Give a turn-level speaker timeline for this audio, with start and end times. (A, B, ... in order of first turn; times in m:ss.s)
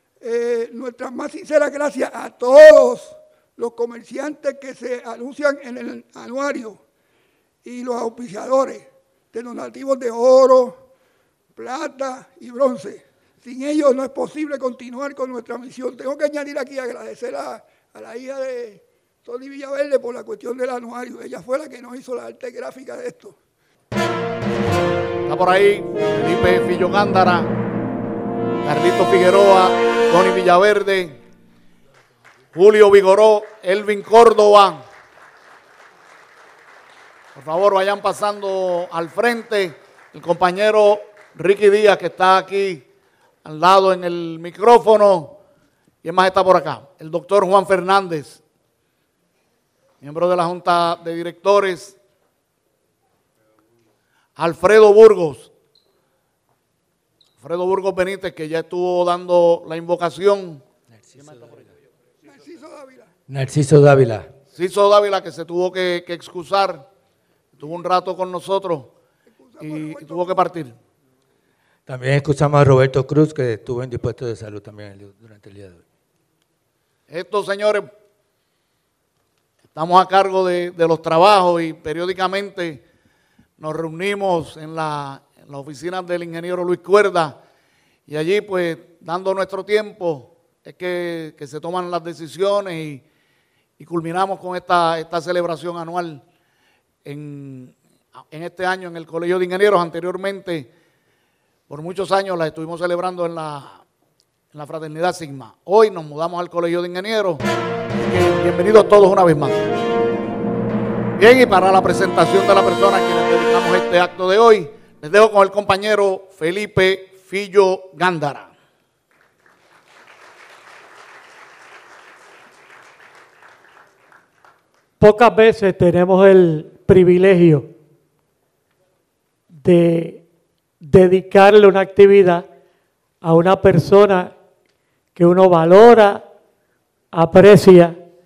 0:00.2-0:06.8 A
0:07.6-0:10.8 A
0:11.6-0:23.4 A
0:25.2-0:27.5 B
0:28.6-0:31.2 B
0:32.5-0:34.8 B
0:37.4-0:42.9 B
0:43.4-0:45.4 B
0:46.0-0:48.4 B
0:50.0-0:52.0 B
0:54.4-0:55.5 B
0:57.4-1:00.6 B
1:01.0-1:01.7 C
1:01.2-1:01.5 B
1:02.2-1:03.1 A
1:03.3-1:04.2 C
1:04.5-1:06.9 B
1:07.6-1:08.9 B
1:09.4-1:10.4 A
1:09.6-1:10.8 B
1:11.9-1:15.8 C
1:17.1-1:17.9 B
1:19.8-1:22.8 B
1:23.6-1:27.4 B
1:28.1-1:33.0 B
1:33.8-1:36.2 B
1:37.0-1:40.7 B
1:41.7-1:43.8 B
1:44.5-1:47.4 B
1:48.0-1:49.6 B
1:51.2-1:58.5 B
2:05.0-2:07.7 D
2:09.6-2:10.2 D
2:10.8-2:12.5 D
2:13.2-2:14.3 D
2:15.2-2:16.2 D
2:17.1-2:18.0 D